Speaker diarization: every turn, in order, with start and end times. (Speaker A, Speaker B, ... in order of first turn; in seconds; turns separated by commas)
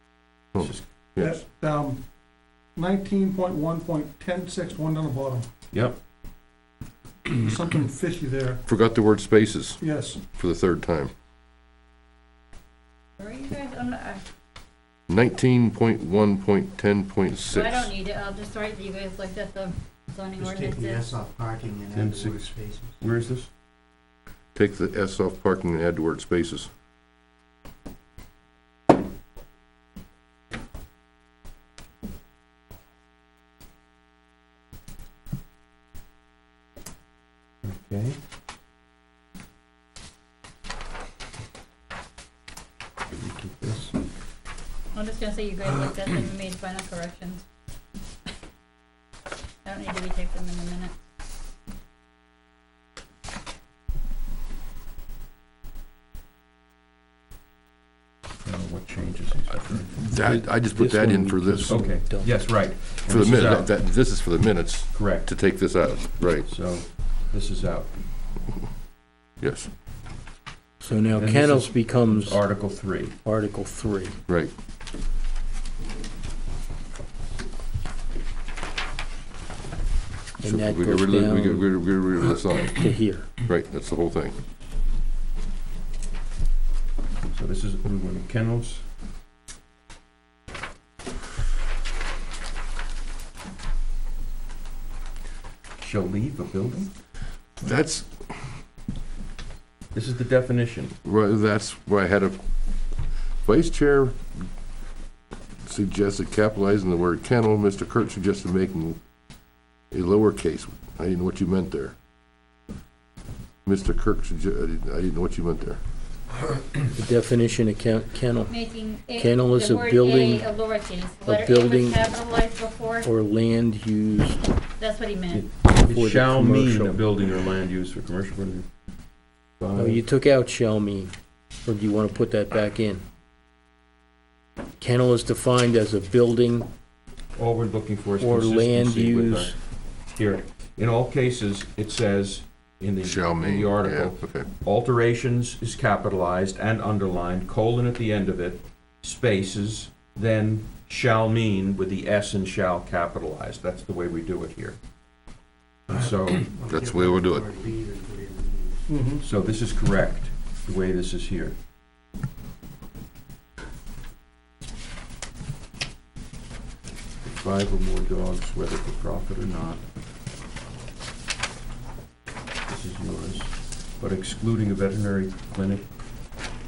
Speaker A: 0.5-1.4, Speaker B: 0.6-0.8, Speaker C: 1.2-2.0, Speaker C: 2.7-5.5, Speaker B: 5.7-6.0, Speaker C: 7.4-8.6, Speaker A: 8.7-9.8, Speaker C: 9.8-10.2, Speaker A: 10.3-11.1, Speaker D: 13.2-14.2, Speaker A: 15.1-17.9, Speaker D: 17.5-21.2, Speaker E: 20.4-22.9, Speaker B: 21.9-23.5, Speaker A: 24.5-26.7, Speaker B: 37.6-38.2, Speaker B: 43.1-43.9, Speaker D: 44.9-47.4, Speaker D: 49.6-50.9, Speaker B: 58.4-60.1, Speaker F: 60.1-62.4, Speaker A: 60.1-61.9, Speaker B: 61.7-63.7, Speaker A: 63.1-66.5, Speaker B: 64.9-65.3, Speaker B: 66.4-67.9, Speaker A: 69.4-69.7, Speaker F: 70.8-72.4, Speaker B: 71.1-73.2, Speaker F: 73.2-74.2, Speaker A: 74.3-74.5, Speaker F: 80.4-81.7, Speaker A: 80.4-84.4, Speaker F: 82.8-83.3, Speaker B: 87.3-88.8, Speaker B: 95.8-96.9, Speaker A: 97.6-98.3, Speaker B: 99.9-100.9, Speaker A: 101.0-102.4, Speaker A: 103.4-104.2, Speaker A: 105.6-109.0, Speaker A: 109.9-111.9, Speaker A: 113.6-115.8, Speaker F: 117.0-118.5, Speaker D: 118.5-123.1, Speaker F: 119.1-120.5, Speaker F: 121.2-122.0, Speaker F: 123.0-124.4, Speaker D: 124.8-125.5, Speaker B: 125.3-128.7, Speaker F: 125.8-127.0, Speaker B: 129.6-130.0, Speaker F: 129.8-131.1, Speaker F: 131.6-133.0, Speaker F: 134.8-136.7, Speaker B: 137.3-154.8, Speaker F: 138.2-139.5, Speaker A: 143.0-144.5, Speaker B: 155.9-156.5, Speaker E: 156.5-158.9, Speaker A: 156.6-157.5, Speaker C: 158.9-159.2, Speaker B: 159.2-161.6, Speaker B: 167.2-169.8, Speaker B: 172.7-175.9